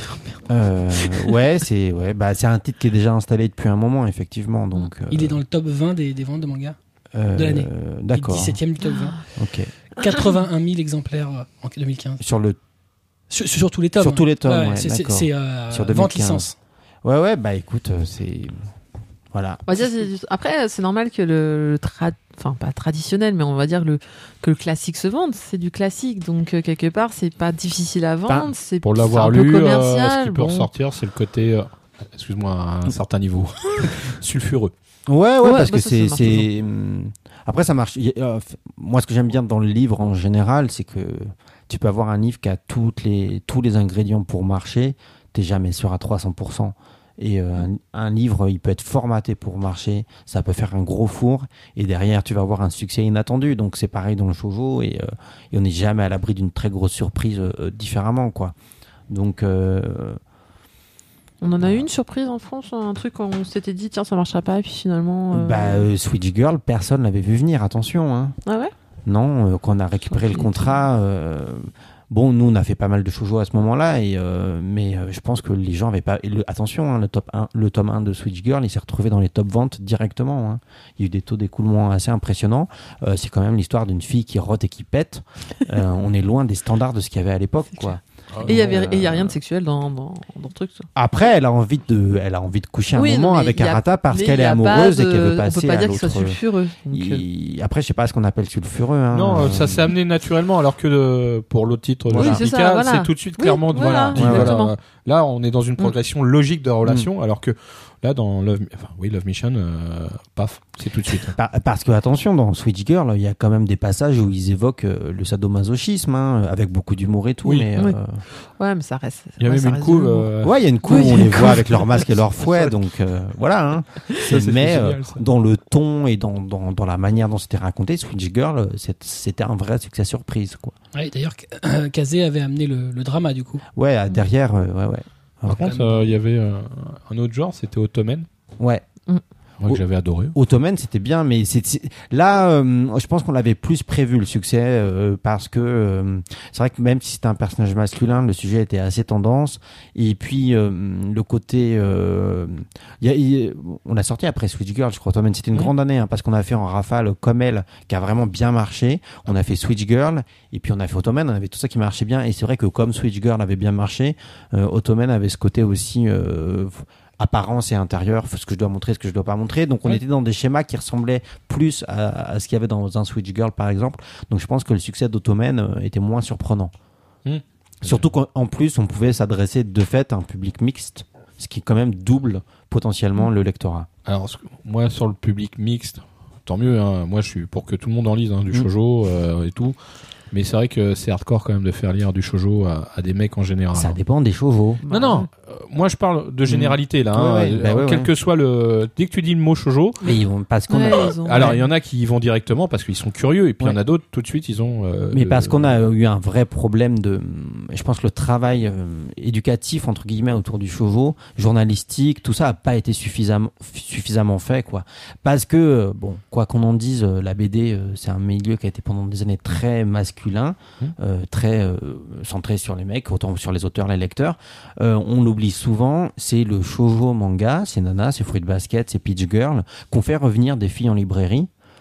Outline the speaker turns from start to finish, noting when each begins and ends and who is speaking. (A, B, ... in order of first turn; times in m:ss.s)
0:00.5-0:05.4 A
0:05.1-0:06.8 B
0:07.1-0:08.6 A
0:07.4-0:09.2 B
0:09.3-0:09.7 A
0:10.0-0:12.2 B
0:12.2-0:12.6 A
0:13.3-0:16.6 B
0:14.0-0:16.5 A
0:17.0-0:18.6 A
0:19.3-0:19.6 A
0:19.7-0:30.7 C
0:28.8-0:34.7 D
0:35.1-0:58.5 A
0:35.4-0:36.5 C
0:59.1-1:00.2 A
1:01.4-1:05.8 C
1:01.6-1:01.9 A
1:05.3-1:08.4 A
1:08.4-1:08.7 C
1:09.0-1:29.4 A
1:10.1-1:10.8 C
1:28.3-1:28.6 D
1:28.4-1:30.9 C
1:30.9-1:36.4 A
1:32.9-1:37.2 C
1:36.9-1:39.9 A
1:39.1-1:51.4 D
1:42.1-1:42.4 A
1:42.1-1:44.7 C
1:44.1-1:44.5 A
1:51.3-1:58.2 A
1:58.6-2:00.3 C
1:59.4-2:00.6 D
2:00.4-2:10.8 A
2:00.8-2:01.8 C
2:02.4-2:02.8 D
2:04.2-2:05.2 D
2:10.9-2:13.6 B
2:13.7-2:15.8 A
2:15.4-2:18.3 D
2:15.6-2:16.0 B
2:18.6-2:18.8 A
2:19.6-2:20.4 D
2:20.3-2:56.7 A
2:57.2-2:58.0 D
2:57.8-3:03.9 A
3:04.0-3:09.8 D
3:10.3-3:14.0 D
3:13.7-3:14.8 A
3:14.8-3:15.3 C
3:14.9-3:20.0 D
3:16.5-3:18.1 A
3:20.0-3:21.6 A
3:20.7-3:21.6 C
3:21.1-3:25.7 D
3:25.1-3:51.5 A